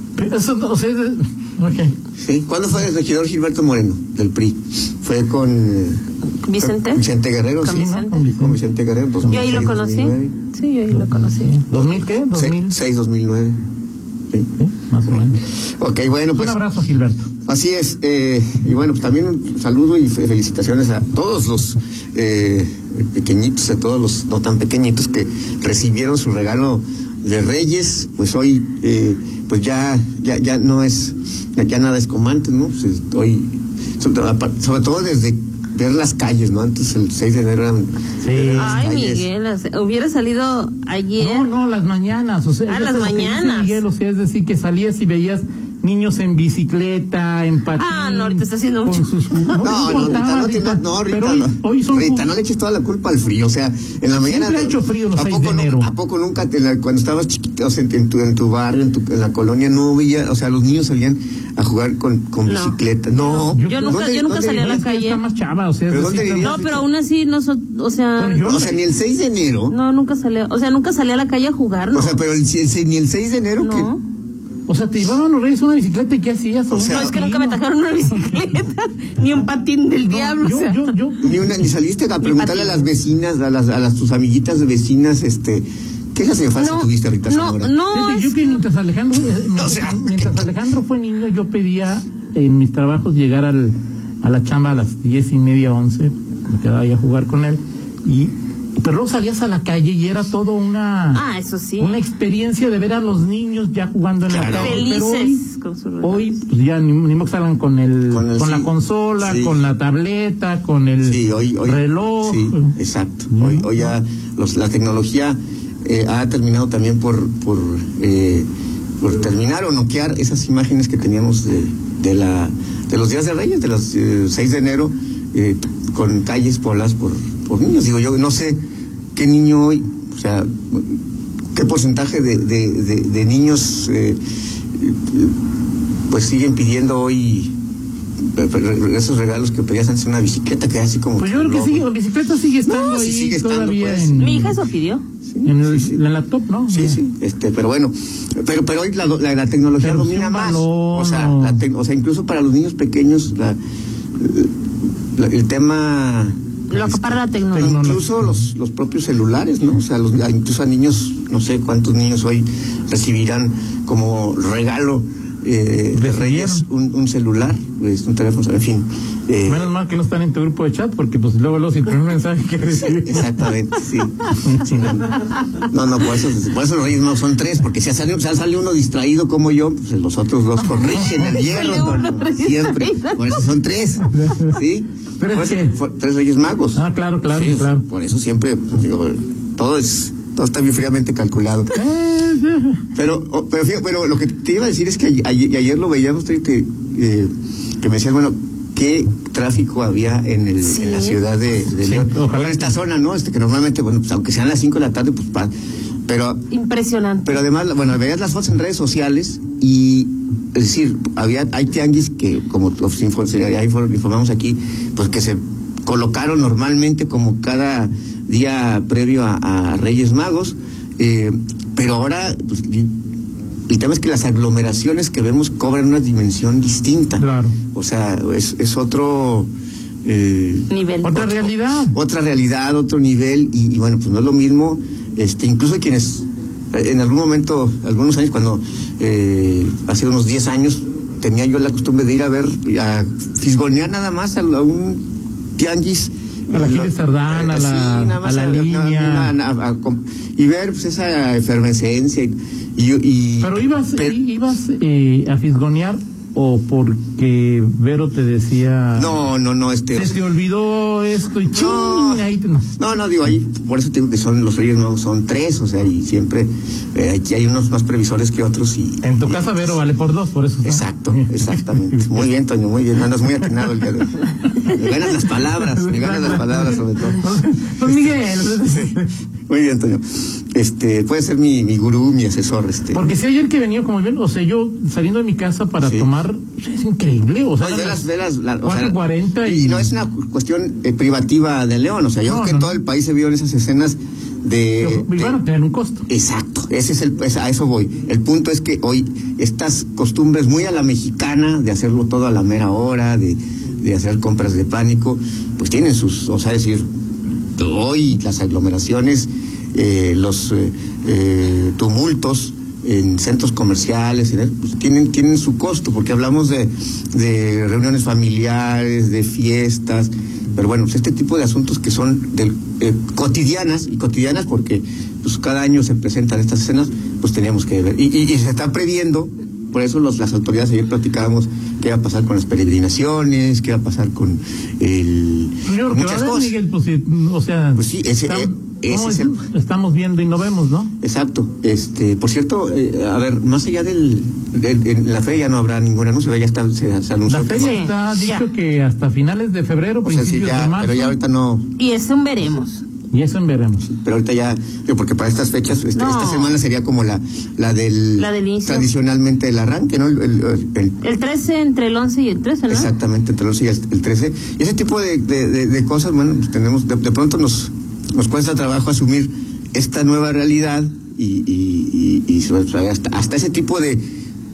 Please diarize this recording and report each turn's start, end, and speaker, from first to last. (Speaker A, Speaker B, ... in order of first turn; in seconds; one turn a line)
Speaker A: 0.2-2.0
Speaker B: 2.2-6.0
Speaker C: 6.4-7.0
Speaker B: 6.6-10.3
Speaker C: 7.6-8.1
Speaker A: 7.7-8.6
Speaker A: 9.2-9.7
Speaker C: 9.3-11.7
Speaker A: 11.5-12.8
Speaker B: 11.8-13.6
Speaker A: 14.6-15.4
Speaker B: 15.1-16.6
Speaker A: 16.4-17.3
Speaker B: 17.5-39.3
Speaker A: 38.2-38.8
Speaker C: 38.5-41.5
Speaker A: 41.2-52.3
Speaker C: 42.7-43.8
Speaker C: 47.8-49.6
Speaker B: 49.6-64.8
Speaker A: 54.2-55.9
Speaker C: 62.5-65.2
Speaker A: 63.4-66.6
Speaker B: 65.9-66.9
Speaker C: 66.4-68.6
Speaker A: 68.2-68.8
Speaker B: 68.4-69.8
Speaker C: 69.7-72.2
Speaker B: 71.9-73.9
Speaker C: 73.6-74.0
Speaker A: 74.7-77.6
Speaker B: 76.7-77.1
Speaker C: 76.9-80.9
Speaker A: 80.0-81.7
Speaker B: 81.2-87.7
Speaker A: 82.2-82.9
Speaker C: 86.6-88.5
Speaker A: 87.9-101.2
Speaker B: 89.3-90.5
Speaker C: 101.1-102.0
Speaker A: 101.8-105.4
Speaker B: 104.3-104.9
Speaker C: 104.6-106.4
Speaker A: 106.0-112.8
Speaker B: 108.1-109.6
Speaker B: 111.0-118.5
Speaker A: 113.3-114.0
Speaker B: 119.0-128.6
Speaker B: 129.2-131.0
Speaker B: 131.6-134.2
Speaker B: 134.8-135.3
Speaker B: 136.1-137.5
Speaker B: 138.2-141.9
Speaker A: 141.2-144.5
Speaker B: 142.7-144.6
Speaker C: 144.2-145.0
Speaker B: 145.3-146.0
Speaker A: 145.4-147.0
Speaker B: 146.7-153.6
Speaker A: 149.8-151.6
Speaker B: 154.2-154.5
Speaker B: 155.1-169.7
Speaker C: 156.7-157.8
Speaker A: 157.5-158.3
Speaker A: 165.9-166.7
Speaker A: 169.5-173.3
Speaker B: 172.8-175.1
Speaker A: 174.4-175.0
Speaker B: 175.6-191.8
Speaker C: 181.0-183.4
Speaker A: 184.1-184.6
Speaker A: 185.2-185.8
Speaker A: 186.8-187.8
Speaker A: 191.7-192.8
Speaker B: 192.9-205.5
Speaker C: 200.6-201.2
Speaker A: 201.7-202.8
Speaker B: 206.1-206.5
Speaker C: 206.5-207.4
Speaker B: 207.2-222.9
Speaker B: 223.7-229.5
Speaker A: 227.2-227.6
Speaker B: 230.1-245.0
Speaker C: 230.7-231.2
Speaker A: 231.0-232.0
Speaker B: 245.6-254.2
Speaker A: 246.5-249.3
Speaker A: 253.4-259.2
Speaker B: 258.9-260.2
Speaker A: 259.9-262.7
Speaker B: 261.5-269.8
Speaker A: 269.0-272.2
Speaker B: 270.6-277.2
Speaker A: 275.5-279.1
Speaker B: 277.9-283.1
Speaker A: 282.9-288.0
Speaker B: 285.8-286.1
Speaker B: 287.6-295.4
Speaker A: 288.6-289.9
Speaker A: 292.2-292.8
Speaker A: 294.8-296.1
Speaker B: 296.1-306.9
Speaker B: 307.6-336.6
Speaker A: 335.6-340.9
Speaker B: 337.8-339.4
Speaker B: 341.0-347.9
Speaker A: 347.3-351.2
Speaker C: 347.5-348.4
Speaker B: 350.0-351.7
Speaker C: 351.8-352.8
Speaker A: 353.1-353.9
Speaker B: 353.8-361.0
Speaker C: 356.0-356.6
Speaker C: 358.2-358.9
Speaker C: 361.0-362.9
Speaker B: 362.7-374.0